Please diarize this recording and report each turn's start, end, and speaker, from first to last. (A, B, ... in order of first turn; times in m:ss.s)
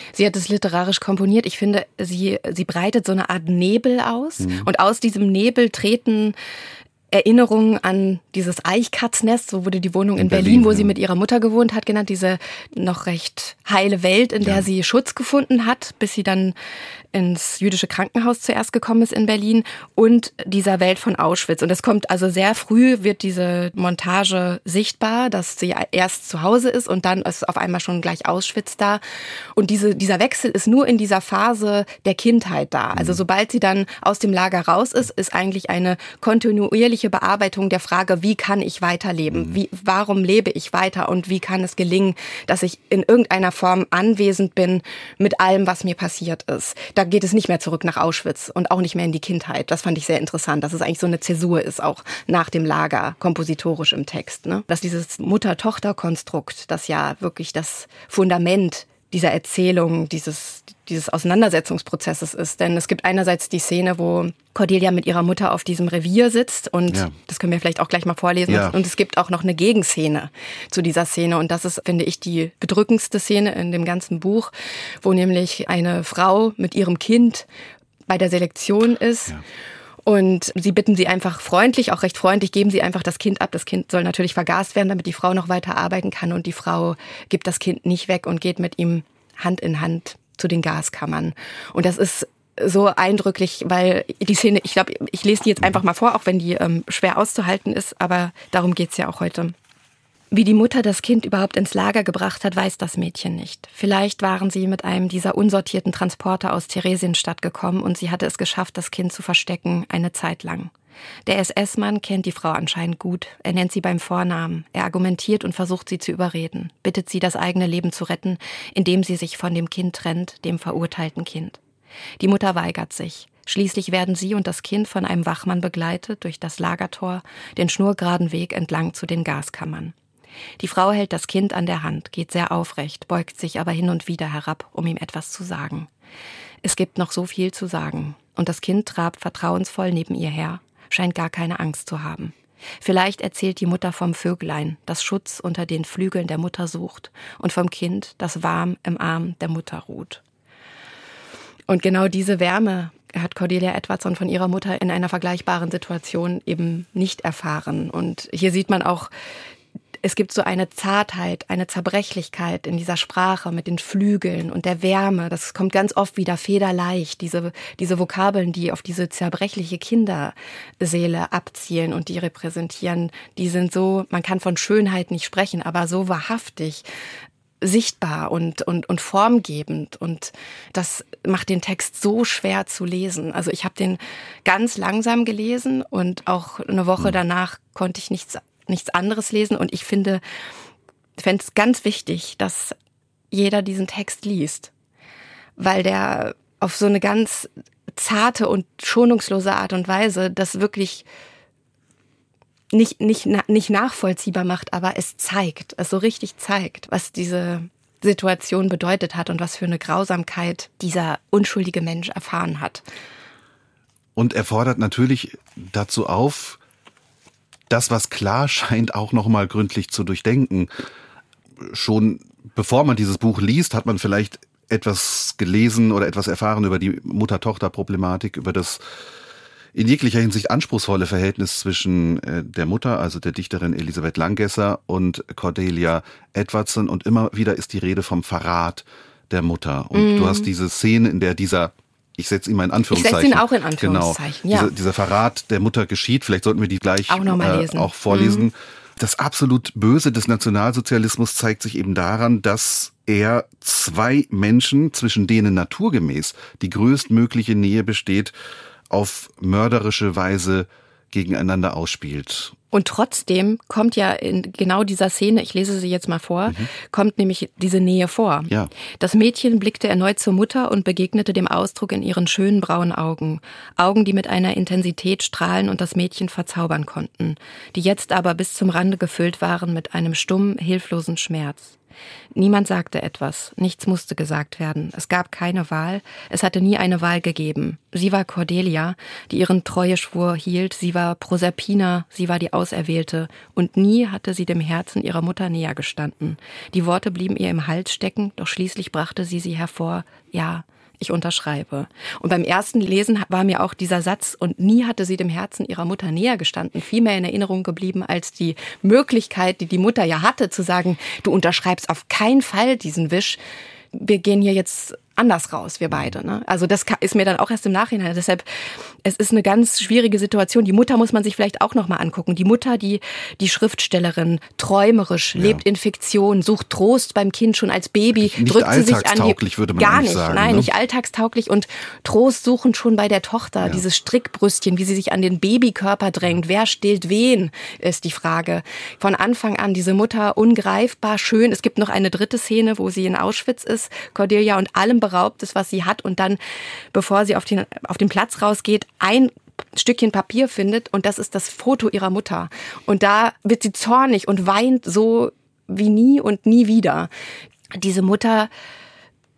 0:00.1-0:06.4 A
0:04.4-0:04.7 B
0:07.1-0:16.6 A
0:10.2-0:10.9 B
0:17.1-0:29.0 A
0:29.6-1:17.5 A
1:06.9-1:07.1 B
1:08.5-1:08.8 B
1:18.1-1:19.4 A
1:20.0-1:39.6 A
1:40.3-1:50.7 A
1:51.3-2:01.6 A
2:02.2-2:10.0 A
2:10.6-2:15.9 A
2:16.6-2:30.2 A
2:31.7-2:39.1 A
2:40.0-2:56.9 A
2:57.6-3:10.2 A
3:11.2-3:12.8 A
3:13.3-3:14.7 A
3:15.6-3:21.1 A
3:22.7-3:32.8 A
3:34.2-3:36.6 B
3:37.7-3:40.7 B
3:41.6-3:48.8 B
3:49.7-4:18.3 B
4:00.0-4:00.5 A
4:02.9-4:04.7 A
4:07.1-4:08.5 A
4:18.9-4:22.6 B
4:22.7-4:41.8 A
4:42.4-5:13.4 A
5:13.9-5:18.4 A
5:19.0-5:46.4 A
5:25.4-5:25.6 B
5:28.2-5:30.7 B
5:46.9-5:57.1 A
5:57.8-5:58.5 A